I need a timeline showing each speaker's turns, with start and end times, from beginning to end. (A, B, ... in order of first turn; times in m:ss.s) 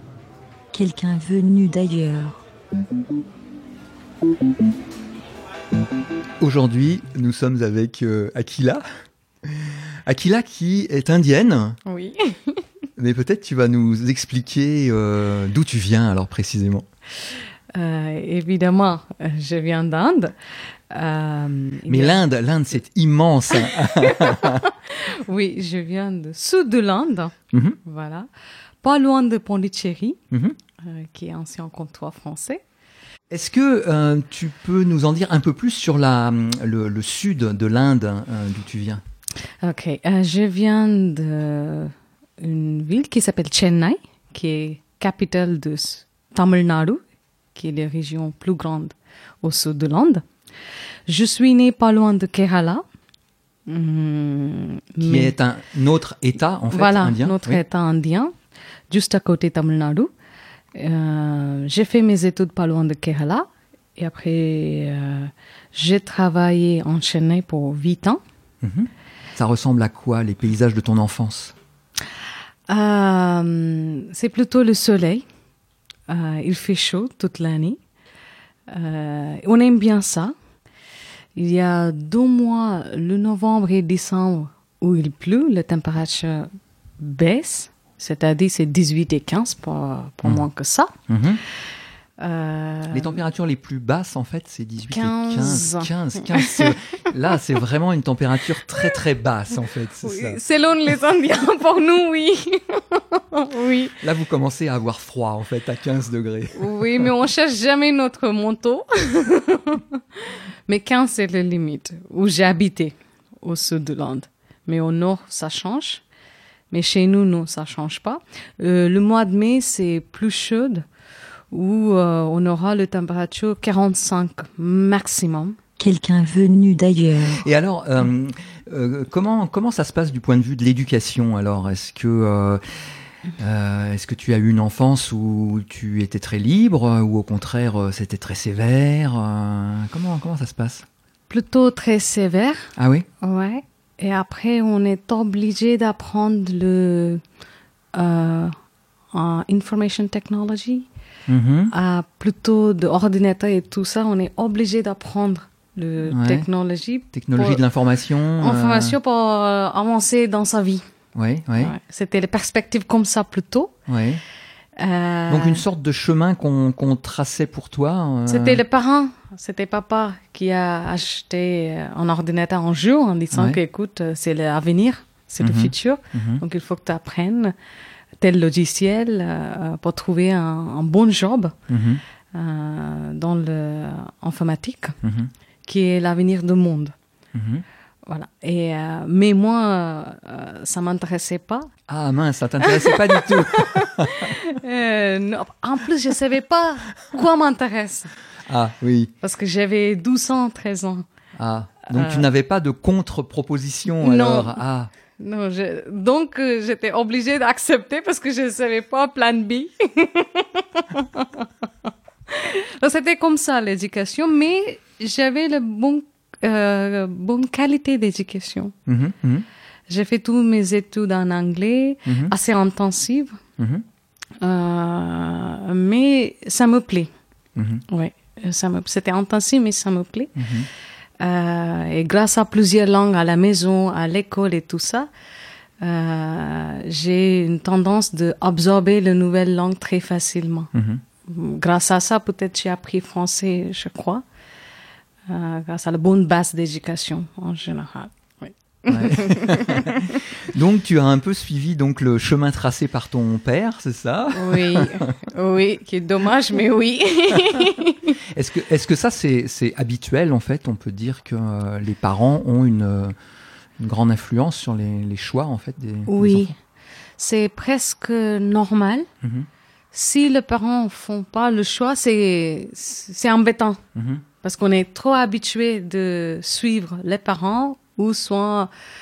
0:00.7-0:02.4 A
0:06.4-0:08.8 B
0:09.4-0:11.8 B
0:11.8-0:12.6 C
0:13.0-0:16.8 B
0:17.7-0:20.3 C
0:20.9-0:22.2 C
0:21.9-0:24.6 B
0:23.5-0:28.3 C
0:28.8-0:30.2 C
0:30.3-0:30.6 B
0:30.8-0:32.6 C
0:33.3-0:39.0 B
0:39.6-0:47.0 C
0:47.5-0:50.2 C
0:51.1-0:52.8 C
0:53.7-0:55.3 C
0:55.0-0:57.6 B
0:56.7-0:58.3 C
0:58.9-1:00.1 C
1:00.7-1:08.2 C
1:08.6-1:11.5 B
1:12.7-1:15.2 C
1:16.1-1:17.8 C
1:18.7-1:20.3 C
1:21.4-1:30.9 C
1:31.1-1:31.4 B
1:32.2-1:33.1 C
1:32.9-1:40.4 B
1:34.9-1:36.8 C
1:40.0-1:43.9 C
1:44.0-1:47.1 B
1:46.6-1:56.0 C
1:56.7-2:00.8 C
2:01.5-2:05.6 C
2:05.8-2:07.4 A
2:07.3-2:12.6 B
2:13.4-2:20.8 B
2:21.3-2:27.2 C
2:22.8-2:23.0 B
2:27.9-2:28.5 C
2:29.1-2:30.9 C
2:31.3-2:31.7 B
2:31.7-2:37.6 C
2:36.1-2:36.5 B
2:37.1-2:39.0 B
2:38.4-2:40.8 C
2:41.1-2:41.7 B
2:41.6-2:43.7 C
2:43.9-2:44.2 B
2:44.8-2:45.6 C
2:45.3-2:48.6 B
2:48.3-2:57.5 C
2:53.3-2:53.6 B
2:55.4-2:56.4 B
2:58.2-3:01.5 C
3:01.7-3:02.0 B
3:02.3-3:05.0 C
3:05.0-3:05.3 B
3:05.6-3:06.9 C
3:07.3-3:07.6 B
3:08.0-3:11.7 C
3:11.9-3:14.3 B
3:12.6-3:18.1 C
3:18.5-3:19.1 B
3:19.2-3:21.0 C
3:21.3-3:24.9 B
3:21.9-3:22.2 C
3:24.0-3:24.6 C
3:25.2-3:31.5 C
3:32.3-3:38.7 C
3:38.9-3:39.4 B
3:39.9-3:43.4 C
3:42.1-3:42.3 B
3:43.6-3:43.8 B
3:44.4-3:47.1 C
3:47.6-3:47.8 B
3:47.9-3:50.5 C
3:50.4-3:50.7 B
3:51.2-3:55.1 C
3:55.8-4:00.7 C
4:00.7-4:01.0 B
4:01.3-4:04.2 C
4:05.3-4:10.2 C
4:08.9-4:15.1 B
4:14.3-4:18.2 C
4:18.3-4:23.1 B
4:23.8-4:26.5 B
4:26.1-4:26.5 C
4:27.2-4:29.1 C
4:29.2-4:29.5 B
4:29.9-4:33.8 C
4:33.9-4:34.2 B
4:34.4-4:38.7 C